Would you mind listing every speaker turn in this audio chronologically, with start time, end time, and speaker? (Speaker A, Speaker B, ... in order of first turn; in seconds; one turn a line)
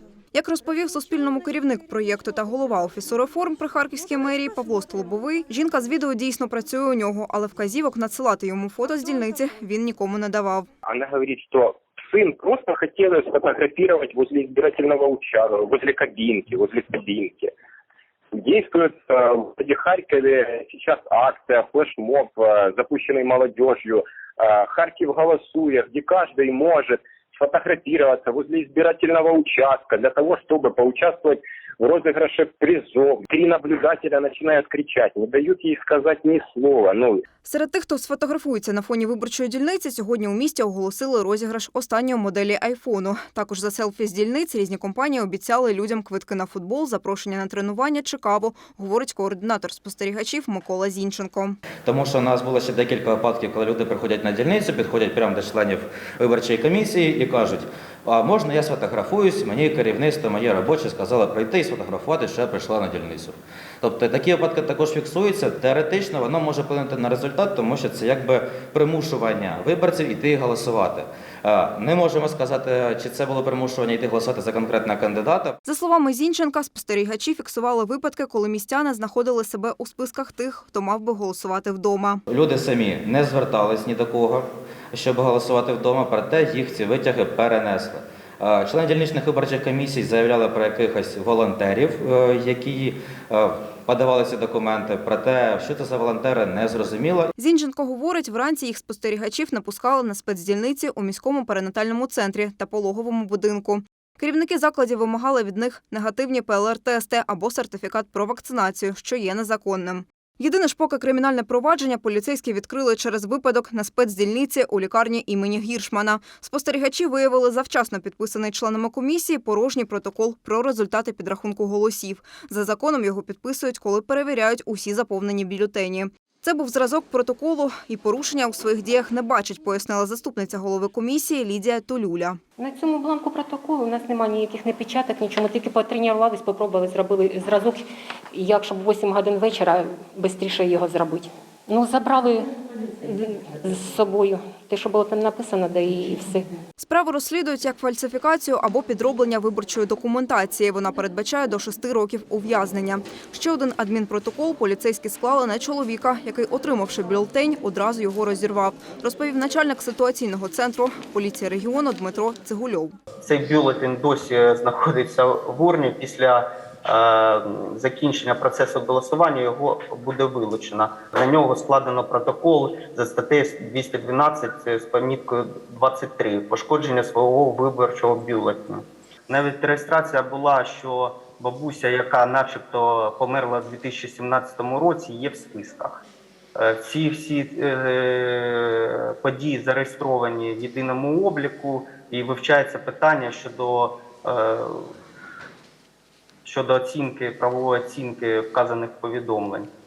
Speaker A: 0.3-10.7
Speaker B: 10.9-17.5
Speaker B: 18.3-37.2
Speaker A: 37.4-51.6
Speaker C: 51.8-75.6
Speaker A: 75.7-82.2
Speaker C: 82.3-97.3
Speaker A: 97.4-132.4
Speaker D: 132.6-142.5
Speaker D: 143.0-146.5
Speaker A: 146.8-162.9
Speaker E: 163.2-186.0
Speaker E: 186.6-194.9
Speaker E: 196.4-199.7